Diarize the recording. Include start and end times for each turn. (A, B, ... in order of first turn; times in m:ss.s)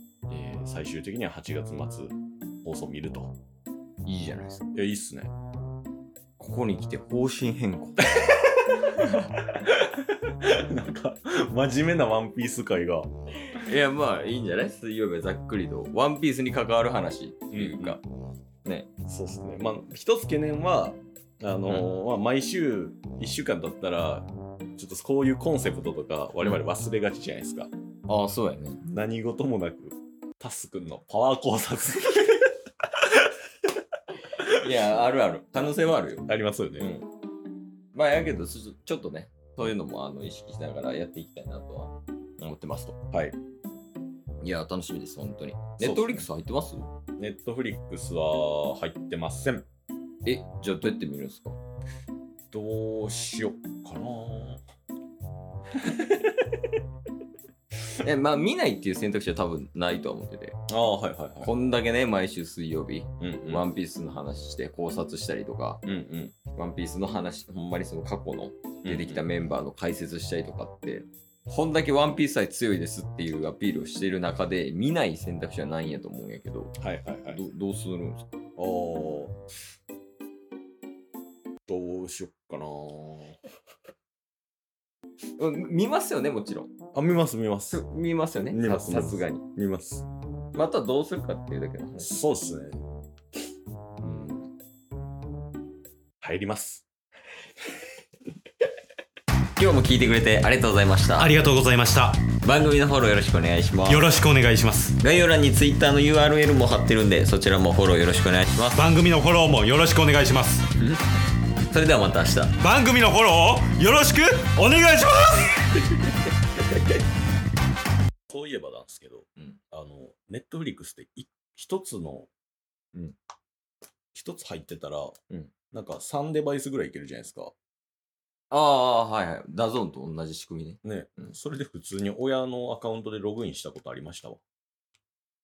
0:00.3-0:03.3 A
0:04.0-0:04.6 B
0:04.7-0:05.3 A
0:06.4-0:08.2 B
0:08.9-0:09.3 B
0:10.2-0:13.1 A
0:13.5-0:18.0 B
0:17.5-0:18.0 A
0:18.6-0:18.9 B
0:19.1-0:27.7 A
0:28.1-0:28.8 B
0:28.8-0:32.5 A
0:34.4-0:37.1 B
0:36.3-0:36.9 A
0:37.9-0:43.0 B
0:43.1-0:43.4 A
0:44.4-0:46.9 B
0:45.8-0:46.3 A
0:47.2-0:49.6 A
0:50.2-0:51.6 B
0:52.5-0:54.6 A
0:55.8-0:56.3 A
0:58.0-1:00.6 B
1:00.7-1:01.5 A
1:01.4-1:05.8 B
1:03.2-1:03.6 A
1:05.8-1:06.4 A
1:06.5-1:18.3 B
1:08.8-1:09.2 A
1:16.8-1:17.4 A
1:18.6-1:19.4 A
1:21.7-1:23.4 A
1:25.4-1:26.7 B
1:26.9-1:27.8 A
1:27.7-1:29.4 B
1:28.5-1:30.1 A
1:30.5-1:32.2 B
1:32.0-1:32.8 A
1:34.0-1:34.5 A
1:36.2-1:36.8 A
1:39.6-1:41.4 B
1:41.2-1:42.2 C
1:42.4-1:44.1 B
1:43.8-1:45.0 C
1:45.0-1:48.8 B
1:48.7-1:50.7 C
1:51.7-1:52.6 B
1:52.6-1:55.6 C
1:58.3-2:02.3 A
2:04.1-2:05.2 A
2:05.7-2:07.5 A
2:08.5-2:11.3 B
2:10.8-2:14.4 A